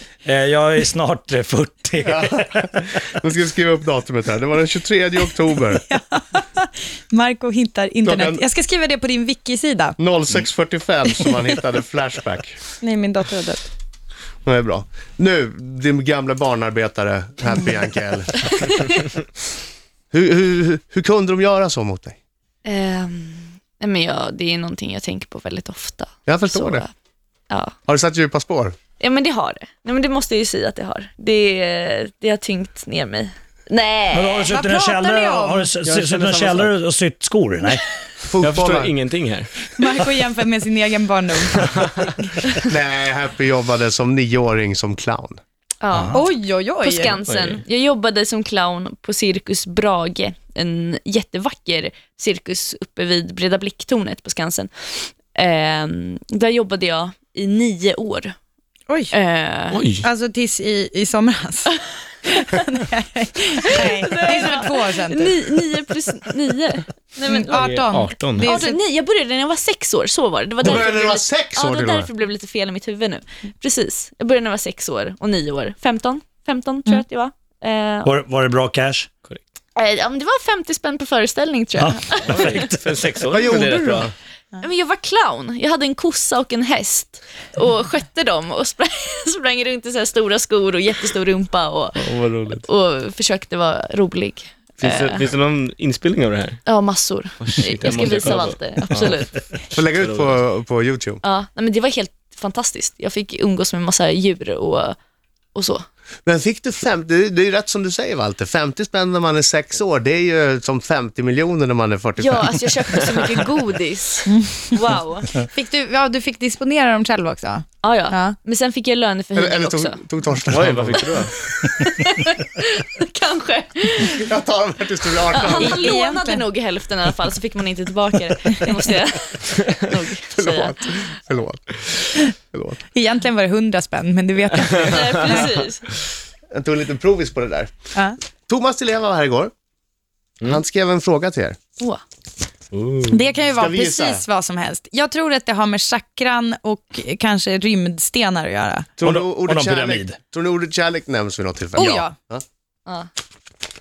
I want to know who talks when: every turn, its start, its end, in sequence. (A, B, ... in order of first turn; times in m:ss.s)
0:00.2-0:02.7 A
0:02.0-0:05.8 B
0:05.9-0:10.0 C
0:08.0-0:08.4 B
0:10.0-0:12.6 B
0:12.8-0:13.7 C
0:14.4-0:18.8 B
0:20.1-0:22.2 B
0:22.6-0:26.9 D
0:26.2-0:26.8 B
0:27.5-0:27.7 D
0:27.9-0:28.8 B
0:29.0-0:34.5 D
0:34.1-0:37.8 A
0:34.5-0:35.7 C
0:35.8-0:36.7 E
0:38.3-0:38.9 B
0:38.4-0:39.5 E
0:39.8-0:42.1 C
0:41.6-0:42.1 E
0:42.6-0:45.4 B
0:45.8-0:46.2 D
0:45.9-0:46.2 A
0:46.1-0:47.2 C
0:46.8-0:58.4 D
0:47.3-0:47.6 E
0:59.1-0:59.8 D
0:59.7-1:00.0 E
1:00.0-1:01.7 C
1:02.2-1:05.4 C
1:03.7-1:07.6 D
1:07.3-1:08.8 C
1:07.5-1:08.6 E
1:08.4-1:18.1 D
1:10.6-1:12.1 B
1:18.0-1:19.1 A
1:19.8-1:22.6 D
1:21.8-1:22.7 A
1:22.3-1:24.1 E
1:23.3-1:24.1 B
1:24.6-1:35.2 D
1:32.0-1:32.6 E
1:34.8-1:36.6 E
1:36.6-1:39.4 D
1:37.4-1:39.2 E
1:39.7-1:41.2 B
1:39.8-1:40.4 E
1:41.2-1:45.0 D
1:45.5-1:45.8 D
1:46.2-1:52.7 B
1:52.2-1:55.4 D
1:54.3-1:54.8 C
1:55.4-1:58.4 C
1:57.8-2:00.0 D
1:59.3-2:01.3 B
2:00.5-2:01.3 E
2:01.8-2:04.3 D
2:04.1-2:05.9 B
2:05.3-2:11.0 D
2:05.6-2:06.4 C
2:10.3-2:11.8 B
2:12.4-2:12.8 B
2:12.9-2:15.5 C
2:14.7-2:15.5 E
2:14.8-2:15.9 D
2:16.5-2:17.7 B
2:18.5-2:19.5 B
2:20.4-2:21.6 B
2:22.7-2:23.2 E
2:23.1-2:28.9 C
2:23.6-2:24.2 B
2:29.0-2:32.4 B
2:29.0-2:30.2 A
2:31.8-2:32.1 C